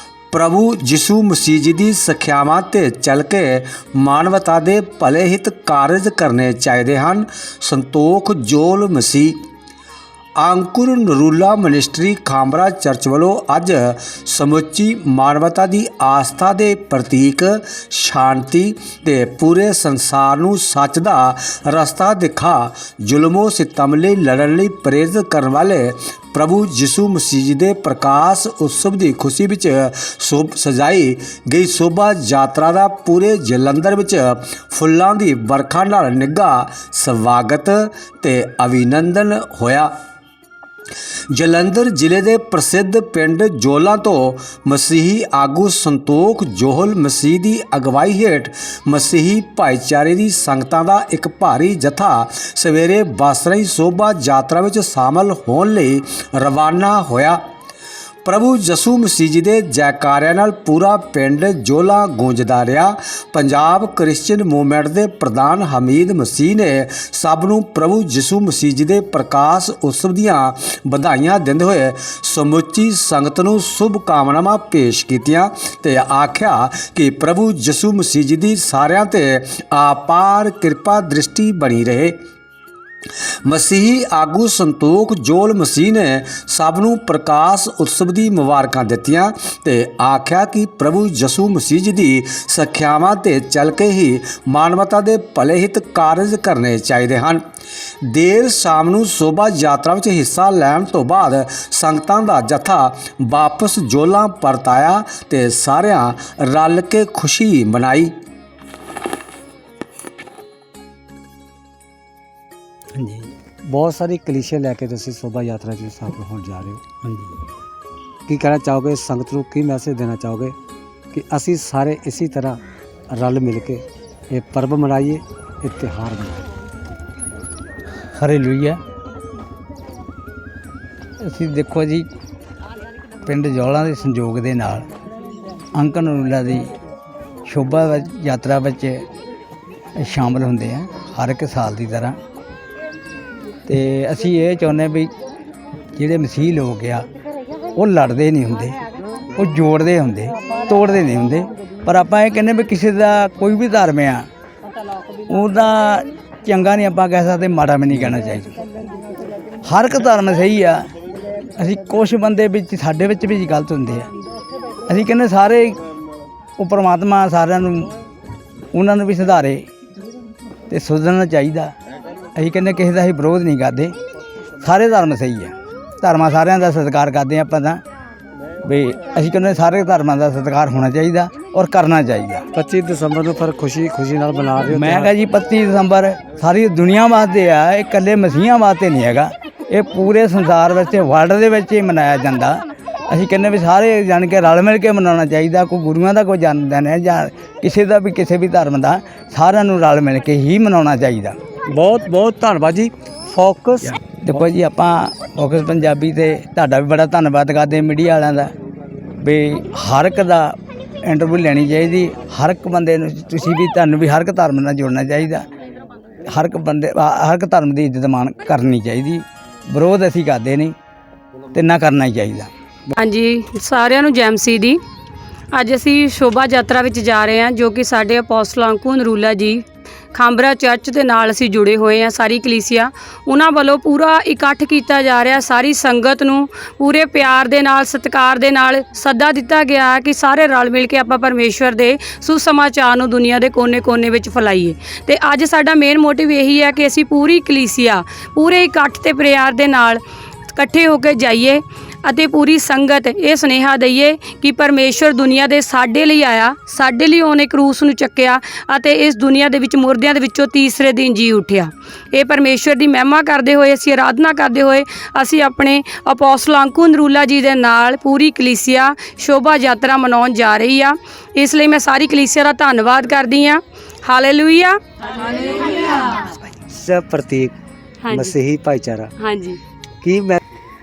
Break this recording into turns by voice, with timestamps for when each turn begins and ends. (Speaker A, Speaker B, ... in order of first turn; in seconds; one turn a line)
Speaker A: 0.3-9.4
Speaker A: 10.4-39.9
Speaker A: 41.3-57.4
Speaker A: 58.2-82.2
Speaker A: 83.5-97.4
Speaker A: 98.1-108.1
Speaker B: 113.0-113.3
Speaker A: 113.7-116.8
Speaker A: 118.3-120.5
Speaker A: 121.1-122.6
Speaker A: 123.1-126.4
Speaker B: 128.2-128.8
Speaker B: 131.2-132.1
Speaker B: 133.2-134.9
Speaker B: 135.8-136.7
Speaker B: 137.5-139.1
Speaker B: 140.0-142.2
Speaker B: 143.7-145.1
Speaker B: 146.0-147.1
Speaker B: 147.8-148.8
Speaker B: 149.4-154.3
Speaker B: 155.3-158.6
Speaker B: 159.7-160.9
Speaker B: 161.6-164.1
Speaker B: 164.9-165.8
Speaker B: 166.6-167.9
Speaker B: 168.7-169.7
Speaker B: 170.7-171.7
Speaker B: 172.4-174.0
Speaker B: 174.6-177.8
Speaker B: 178.6-182.5
Speaker A: 182.5-185.1
Speaker B: 184.6-201.4
Speaker A: 201.7-203.9
Speaker B: 204.2-208.5
Speaker B: 209.2-215.4
Speaker B: 216.3-220.8
Speaker B: 221.5-222.5
Speaker C: 223.0-224.8
Speaker C: 225.5-250.0
Speaker C: 250.5-274.8
Speaker A: 276.7-277.5
Speaker C: 278.0-278.4
Speaker A: 278.1-279.1
Speaker C: 279.2-279.6
Speaker A: 280.0-280.4